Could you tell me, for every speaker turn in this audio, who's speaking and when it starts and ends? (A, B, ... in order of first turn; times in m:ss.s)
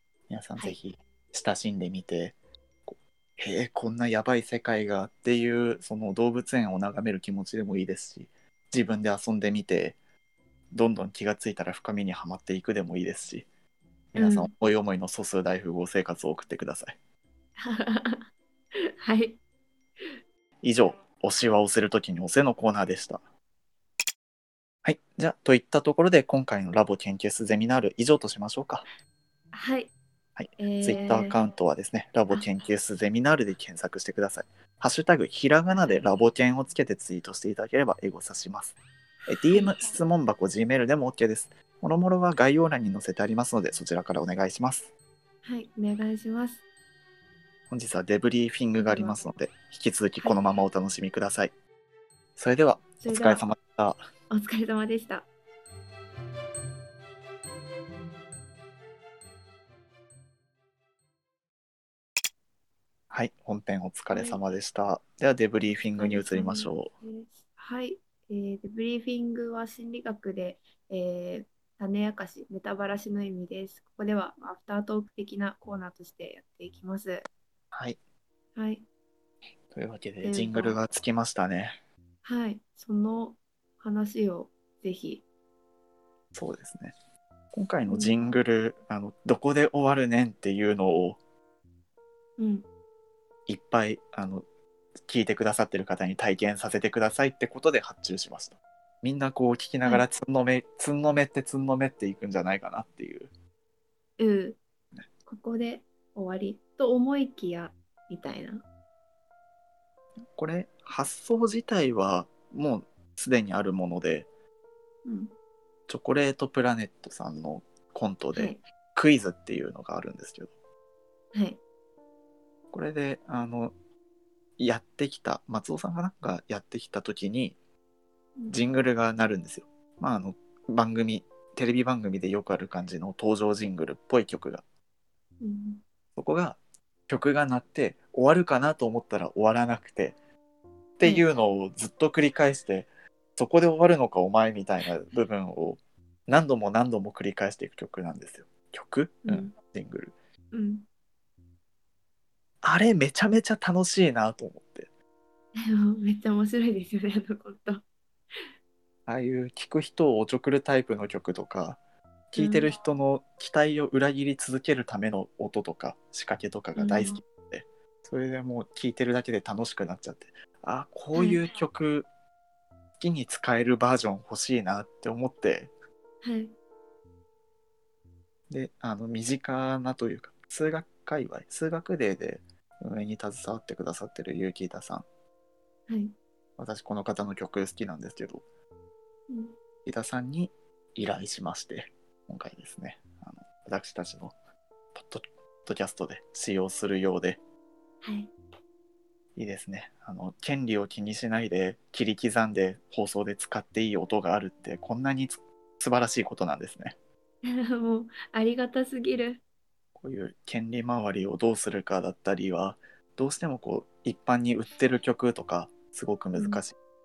0:00.3-0:02.4 A
0:02.9-0:10.0 A
0:10.7-0:13.5 A
0:14.1-0:17.0 A
0:14.2-0:14.5 B
0:17.6-0:18.3 B
0:18.8-0:19.4 B
0:20.6-0:23.2 A
0:24.8-0:28.8 A
0:29.5-0:29.9 B
0:30.4-0:44.9 A
0:30.6-0:31.4 B
0:39.5-0:39.9 B
0:45.4-0:46.6 B
0:47.7-0:51.5 A
0:48.8-0:49.2 B
0:50.2-0:50.5 B
0:52.4-0:54.0 A
0:53.0-0:53.5 B
0:54.3-0:55.3 B
1:03.1-1:06.9 A
1:04.1-1:04.4 B
1:06.0-1:17.3 B
1:17.7-1:18.0 A
1:18.6-1:18.8 B
1:19.7-1:21.8 A
1:20.2-1:20.8 B
1:22.2-1:25.2 B
1:26.3-1:27.0 A
1:27.5-1:31.2 A
1:27.8-1:28.4 B
1:32.4-1:32.6 B
1:33.5-1:34.4 A
1:35.0-1:43.3 A
1:44.2-1:44.6 B
1:45.3-1:48.6 B
1:50.4-1:54.3 A
1:55.0-1:55.3 B
1:55.9-2:00.5 A
1:58.3-1:58.6 B
2:01.3-2:01.6 B
2:02.7-2:03.7 A
2:04.6-2:07.6 A
2:08.5-2:14.6 A
2:15.4-2:15.8 B
2:16.2-2:16.6 A
2:17.1-2:20.2 A
2:21.0-2:30.1 A
2:29.3-2:29.5 B
2:30.5-2:30.9 B
2:32.6-2:34.9 A
2:35.6-2:37.8 B
2:39.1-2:41.8 A
2:42.3-2:52.1 A
2:42.4-2:42.7 B
2:46.8-2:47.2 B
2:51.1-2:51.4 B
2:53.0-2:55.7 A
2:56.2-2:56.5 B
2:58.5-3:05.0 A
3:05.9-3:06.2 B
3:06.6-3:08.4 A
3:09.3-3:09.6 B
3:09.8-3:14.4 A
3:14.9-3:17.4 A
3:18.0-3:18.3 B
3:19.4-3:27.0 A
3:27.4-3:29.4 B
3:30.0-3:36.8 A
3:36.4-3:36.6 B